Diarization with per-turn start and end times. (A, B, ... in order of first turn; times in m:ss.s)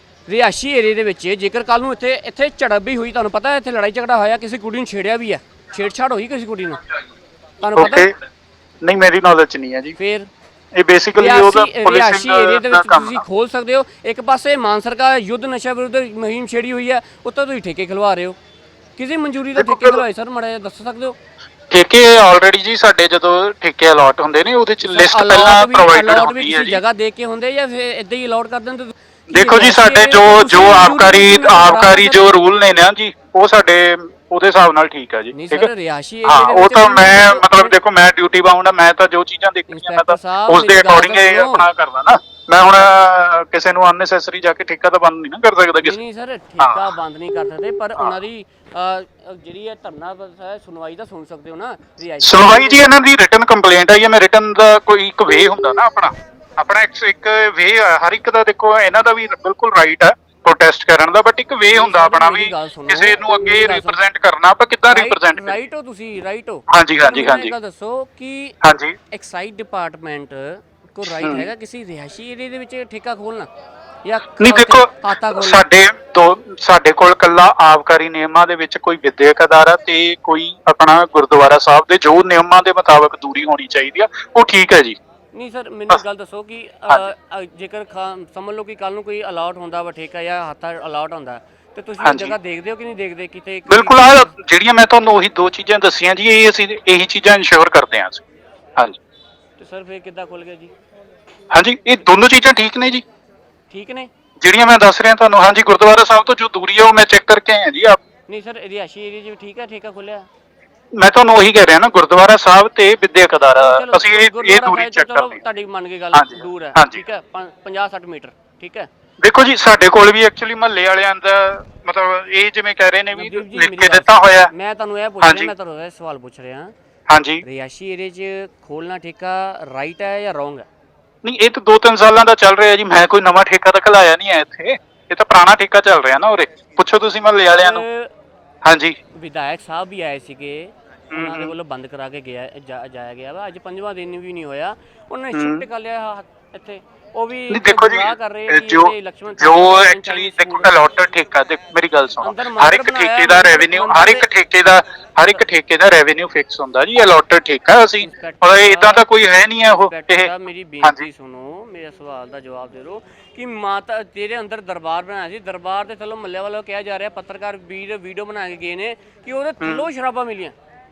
0:00.3-0:06.8 A
0:07.6-0:08.1 A
0:07.8-0:08.1 B
0:08.8-0:09.9 B
0:10.0-0:10.3 A
0:10.7-0:13.2 B
0:11.1-0:18.4 A
0:19.0-0:21.2 A
0:19.5-0:20.0 B
0:21.7-0:26.8 B
0:24.8-0:32.2 A
0:29.3-0:35.7 B
0:35.3-0:37.8 A
0:36.2-0:46.0 B
0:39.7-0:41.6 A
0:45.8-0:52.9 A
0:46.6-0:46.8 B
0:52.2-1:05.6 B
1:01.7-1:04.0 A
1:04.8-1:08.6 A
1:06.7-1:07.5 B
1:08.6-1:09.0 B
1:09.1-1:13.5 A
1:11.0-1:11.5 B
1:14.0-1:15.6 A
1:14.4-1:25.0 B
1:25.3-1:34.3 A
1:32.0-1:32.3 B
1:33.7-1:38.2 B
1:39.6-1:40.7 A
1:41.5-1:43.0 B
1:43.7-1:44.1 A
1:44.4-1:48.0 B
1:48.3-1:50.3 A
1:50.9-1:55.4 B
1:53.6-1:58.9 A
1:56.1-1:57.0 B
1:59.2-2:04.5 B
2:03.1-2:06.7 A
2:05.2-2:05.5 B
2:07.1-2:07.4 B
2:07.4-2:10.6 A
2:11.2-2:17.8 B
2:17.5-2:18.1 A
2:18.6-2:19.0 B
2:19.2-2:30.8 A
2:21.1-2:21.5 B
2:25.3-2:25.6 B
2:27.5-2:41.1 B
2:32.2-2:34.2 A
2:38.0-2:50.5 A
2:49.6-2:49.8 B